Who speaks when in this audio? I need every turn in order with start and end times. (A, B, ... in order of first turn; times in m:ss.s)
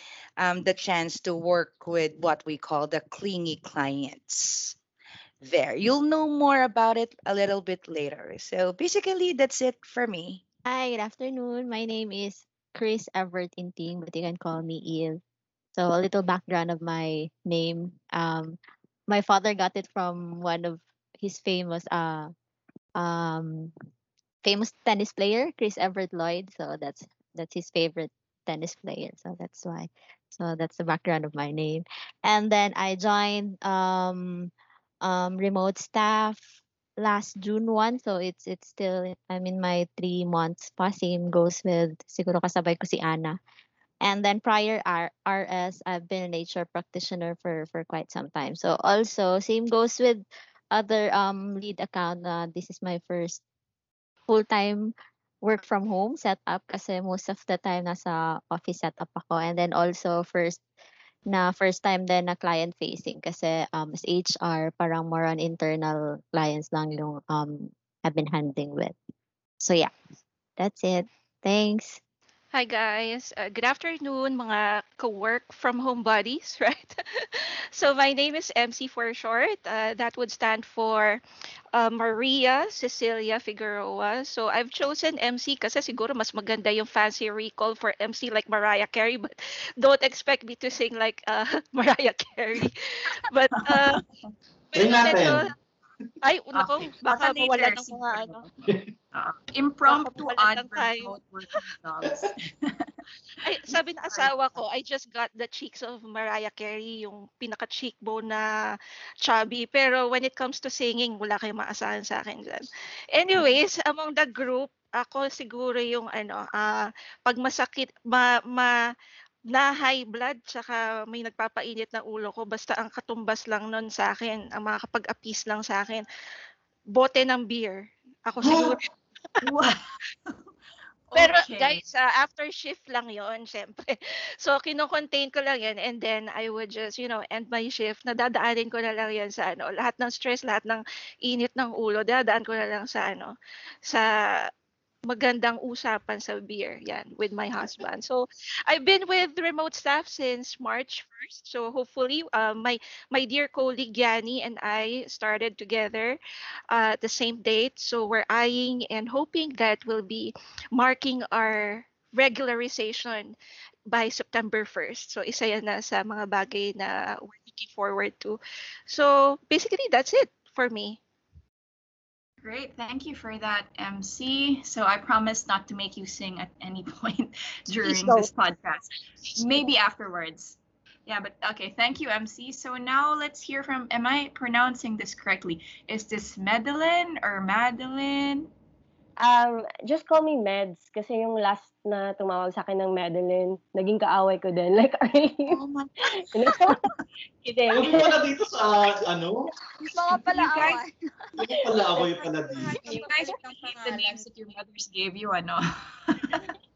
0:00.4-0:04.8 A
0:05.4-0:10.4 A
0:10.7-0:15.2 B
0:15.7-0:22.3 B
0:23.0-0:23.7 B
0:24.4-0:34.5 B
0:35.0-0:43.4 B
0:44.0-0:53.4 B
0:54.3-0:54.9 B
0:55.4-1:00.6 B
1:01.3-1:08.9 B
1:09.6-1:09.9 B
1:10.6-1:12.0 B
1:12.5-1:21.2 C
1:21.7-1:34.0 C
1:34.7-1:35.4 C
1:34.7-1:35.5 D
1:36.2-1:38.4 C
1:37.2-1:38.4 E
1:39.1-1:42.9 E
1:39.8-1:41.1 C
1:42.0-1:42.3 D
1:43.4-1:48.5 C
1:49.2-1:58.7 C
1:59.5-2:06.0 C
2:06.9-2:08.8 C
2:09.4-2:09.8 E
2:11.1-2:11.8 E
2:11.1-2:23.3 C
2:23.8-2:24.5 C
2:25.0-2:36.2 C
2:36.7-2:43.4 C
2:43.9-2:51.0 C
2:52.4-3:08.5 E
3:09.2-3:15.5 F
3:16.3-3:16.7 F
3:17.4-3:18.2 F
3:17.7-3:19.5 D
3:19.9-3:20.9 G
3:20.3-3:20.8 E
3:21.4-3:22.9 D
3:22.5-3:24.2 G
3:22.8-3:26.4 E
3:22.8-3:23.1 F